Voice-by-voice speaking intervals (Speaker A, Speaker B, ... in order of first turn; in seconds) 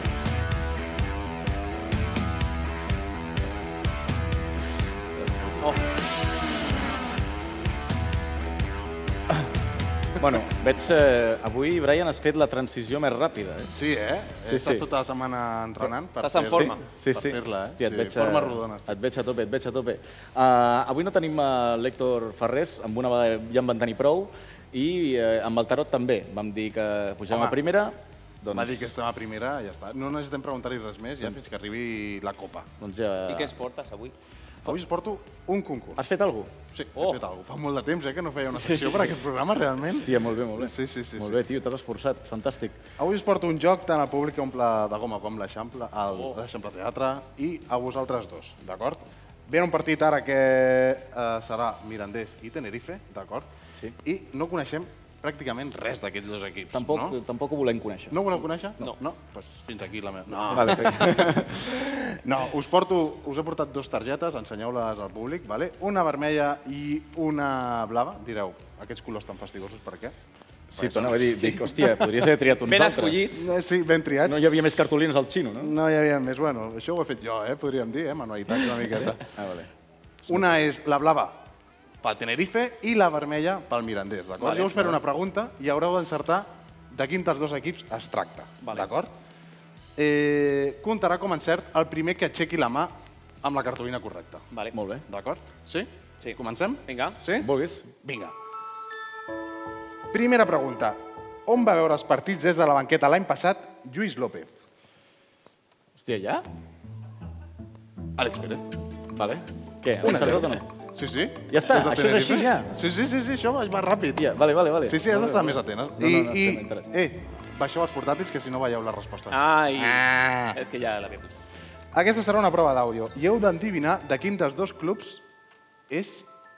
Speaker A: 5.2-5.6, 10.2-13.7, 14.5-14.9, 16.5-28.8, 32.8-33.5, 36.0-36.5, 39.9-42.8, 56.7-58.4, 60.5-61.6, 70.8-73.5, 74.2-75.7, 79.4-79.7, 94.7-95.0, 97.4-97.9, 106.0-106.4, 109.1-110.7, 111.5-112.7, 114.2-116.9
Speaker B: 13.8-19.0, 28.5-32.7, 34.6-36.0, 36.7-41.4, 43.0-53.5, 54.0-57.1, 58.1-70.2, 70.7-71.5, 73.3-74.4, 75.6-79.2, 80.3-81.4, 82.0-89.1, 90.0-94.4, 95.1-97.5, 98.0-98.3, 100.1-104.5, 108.2-108.6, 110.0-114.2, 114.8-120.6, 121.9-125.2, 125.9-126.3
Speaker C: 16.2-16.8, 33.3-34.1, 38.7-39.0, 72.7-73.4, 84.4-84.7, 96.2-97.2, 119.3-121.3